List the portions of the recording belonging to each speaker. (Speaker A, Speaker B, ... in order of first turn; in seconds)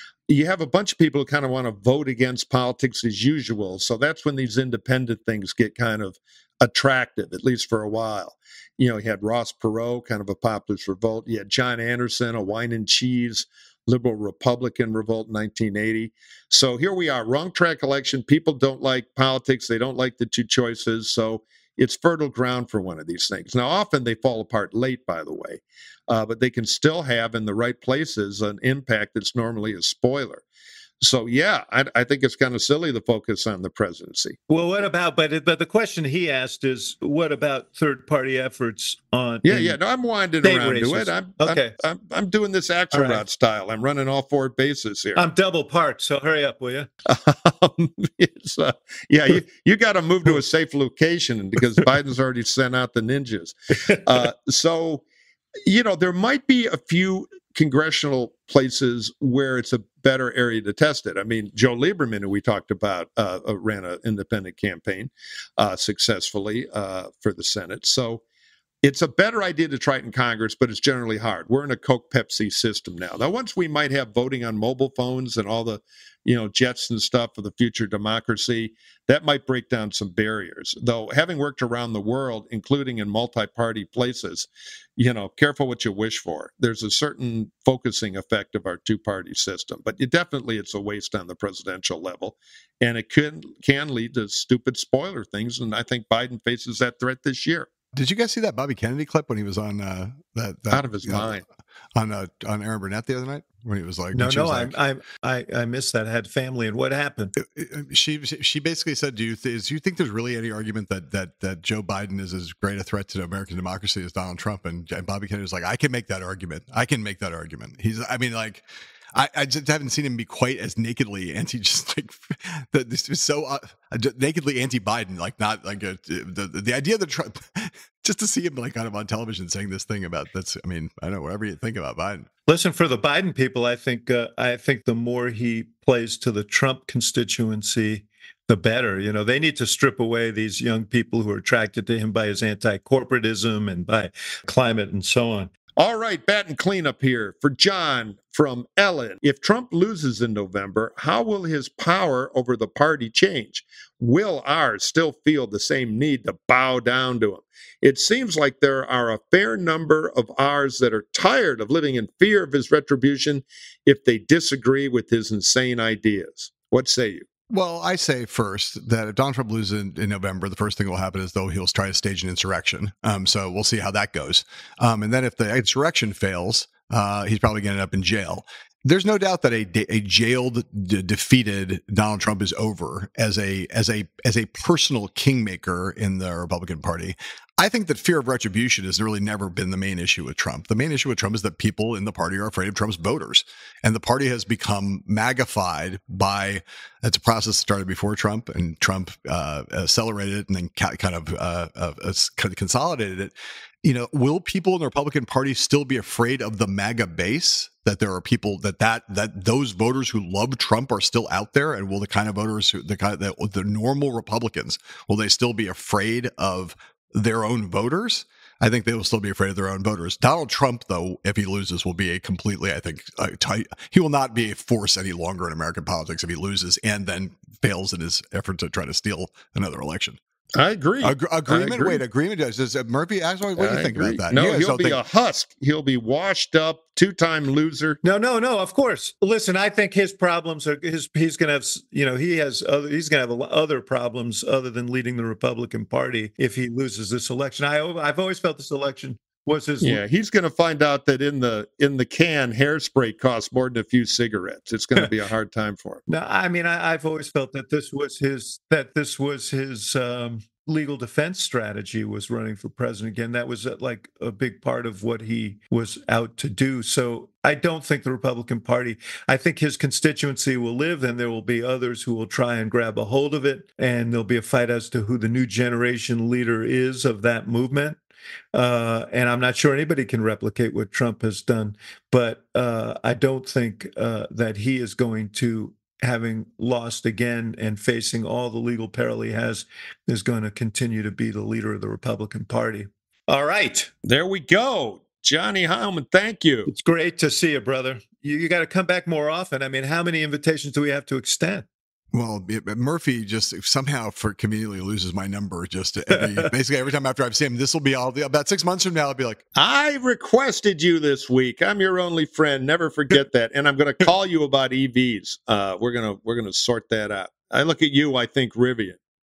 Speaker A: 0.3-30.4, 31.0-34.4, 39.5-45.2, 47.0-55.0, 55.6-68.2, 68.8-97.7, 100.7-101.4, 145.8-167.3, 230.6-232.0, 233.6-238.0, 249.8-256.0, 294.1-296.7, 309.6-319.0
Speaker B: 34.5-39.8, 40.4-41.7, 42.9-43.2, 45.1-46.9, 104.1-107.3, 132.5-145.5, 238.0-250.0, 256.1-278.0, 278.5-293.9, 296.7-301.7
Speaker C: 97.9-101.4, 102.0-104.8, 107.4-132.3, 167.5-230.2, 231.0-235.0, 302.1-309.4